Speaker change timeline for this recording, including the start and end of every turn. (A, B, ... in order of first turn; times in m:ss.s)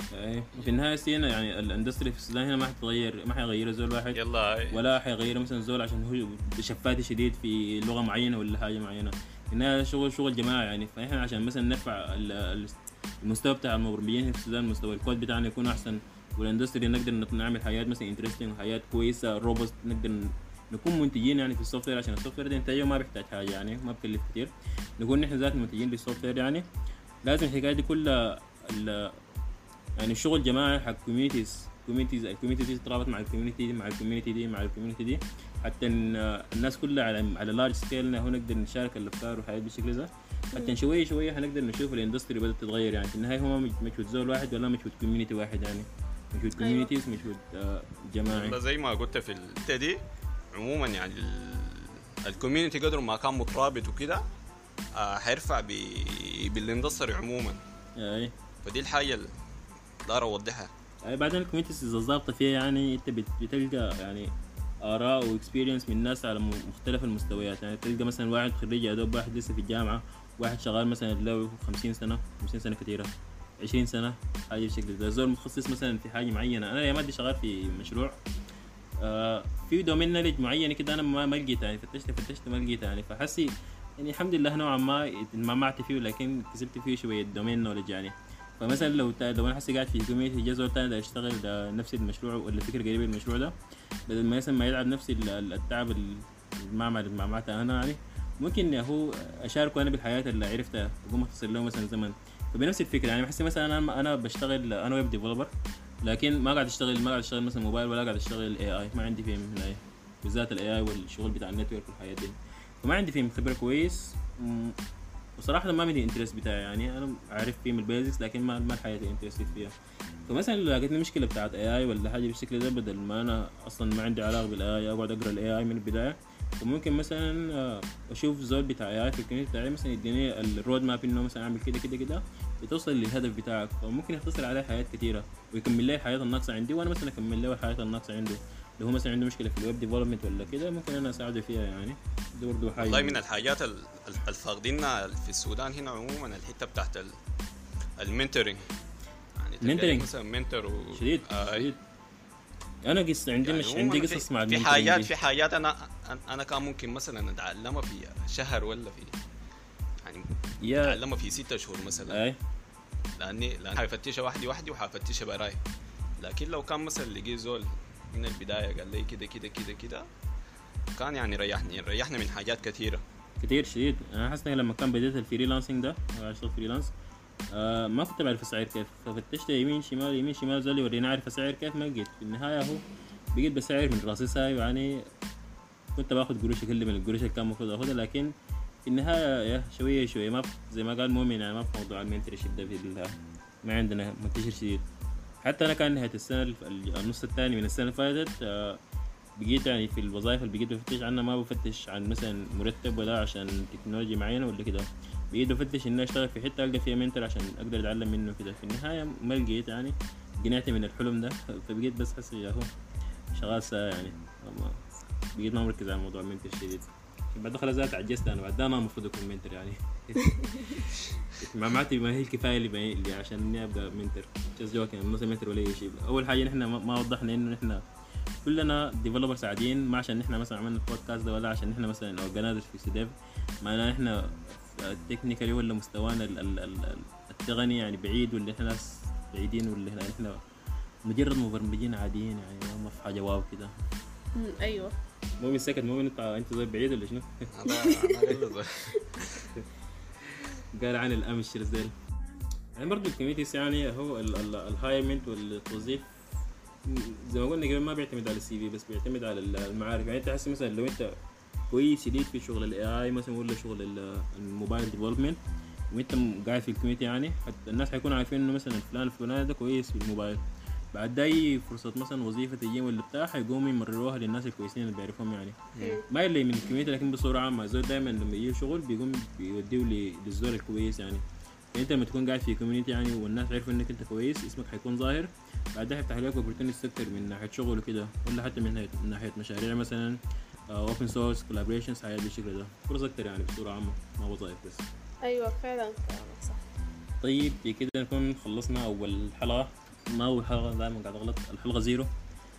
0:00.1-0:26.7 A
0:04.1-0:04.8 B
0:27.2-0:29.2 A
0:30.0-0:48.6 A
0:46.6-0:46.9 C
0:48.3-0:54.2 B
0:55.0-0:57.6 B
0:58.0-0:58.3 A
0:58.6-0:59.3 B
1:00.1-1:00.7 B
1:01.0-1:04.3 A
1:04.8-1:18.1 A
1:19.0-1:33.5 A
1:34.1-1:45.5 A
1:46.0-1:54.8 A
1:55.4-1:59.7 A
2:00.3-2:23.2 A
2:22.8-2:27.1 B
2:28.0-2:28.6 B
2:29.4-2:31.7 B
2:29.6-2:30.1 A
2:30.9-2:31.8 A
2:32.8-2:35.1 A
2:33.4-2:39.2 B
2:40.0-2:40.3 B
2:40.6-2:41.0 A
2:40.8-2:42.2 B
2:42.1-2:42.4 A
2:43.2-2:45.6 B
2:46.2-2:50.1 B
2:51.0-2:53.0 B
2:53.4-2:56.9 A
2:57.5-3:02.8 A
3:03.4-3:05.1 A
3:06.0-3:08.3 A
3:08.8-3:14.9 A
3:15.4-3:18.8 A
3:19.4-3:32.7 A
3:33.3-3:47.8 A
3:40.2-3:40.8 C
3:48.4-4:00.4 A
4:01.1-4:03.7 A
4:04.4-4:04.9 C
4:05.4-4:07.5 A
4:07.6-4:09.5 B
4:07.7-4:08.3 C
4:09.0-4:09.2 C
4:10.2-4:11.9 A
4:12.8-4:16.1 A
4:16.8-4:21.2 A
4:21.7-4:25.4 A
4:25.9-4:30.4 A
4:30.9-4:50.2 A
4:35.7-4:36.0 B
4:35.8-4:36.0 C
4:50.7-4:54.9 A
4:55.2-4:56.6 C
4:57.2-5:02.1 A